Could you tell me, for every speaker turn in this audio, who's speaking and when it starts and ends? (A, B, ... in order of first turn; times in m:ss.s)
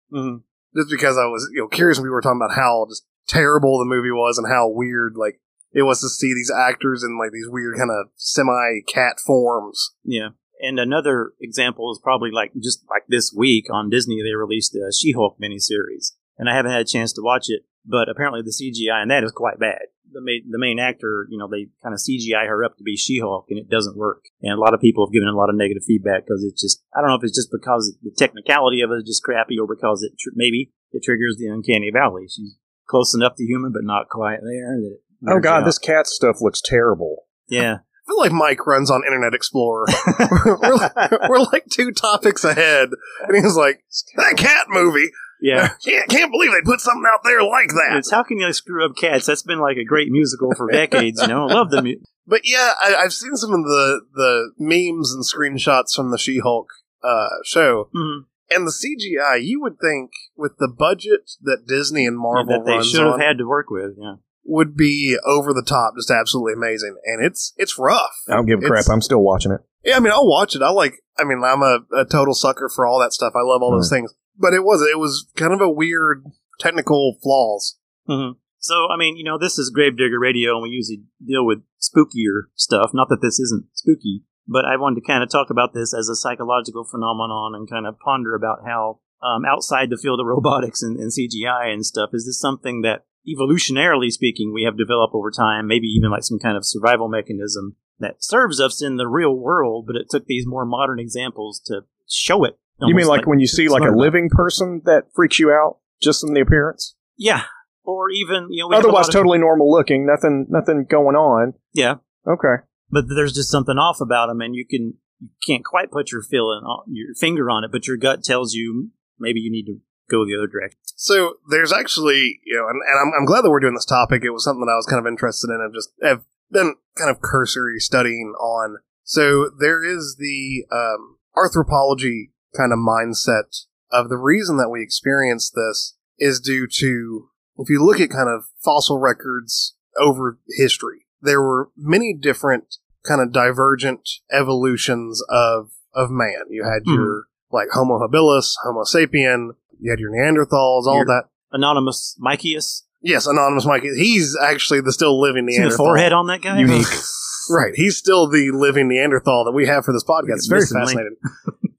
0:00.1-0:00.4 A
0:00.7-0:09.9 B
0:10.0-0:35.8 A
0:35.3-0:37.2 C
0:37.5-0:37.8 A
0:38.1-0:48.0 B
0:39.9-0:41.2 A
0:45.4-0:45.7 A
0:47.9-0:52.0 A
0:50.7-0:51.3 B
0:52.3-0:57.9 B
0:57.9-0:58.2 A
0:58.5-1:03.2 B
1:02.3-1:04.2 A
1:04.4-1:08.9 B
1:08.3-1:09.6 C
1:09.8-1:17.7 B
1:18.1-1:44.1 A
1:42.8-1:46.9 C
1:47.2-1:49.2 A
1:48.7-1:51.6 C
1:52.3-1:52.6 C
1:52.9-2:00.7 A
2:01.0-2:31.3 B
2:26.9-2:27.2 A
2:30.9-2:32.8 A
2:33.0-2:36.1 B
2:35.5-2:37.0 A
2:36.5-2:37.4 C
2:37.5-2:41.2 B
2:40.2-2:41.6 A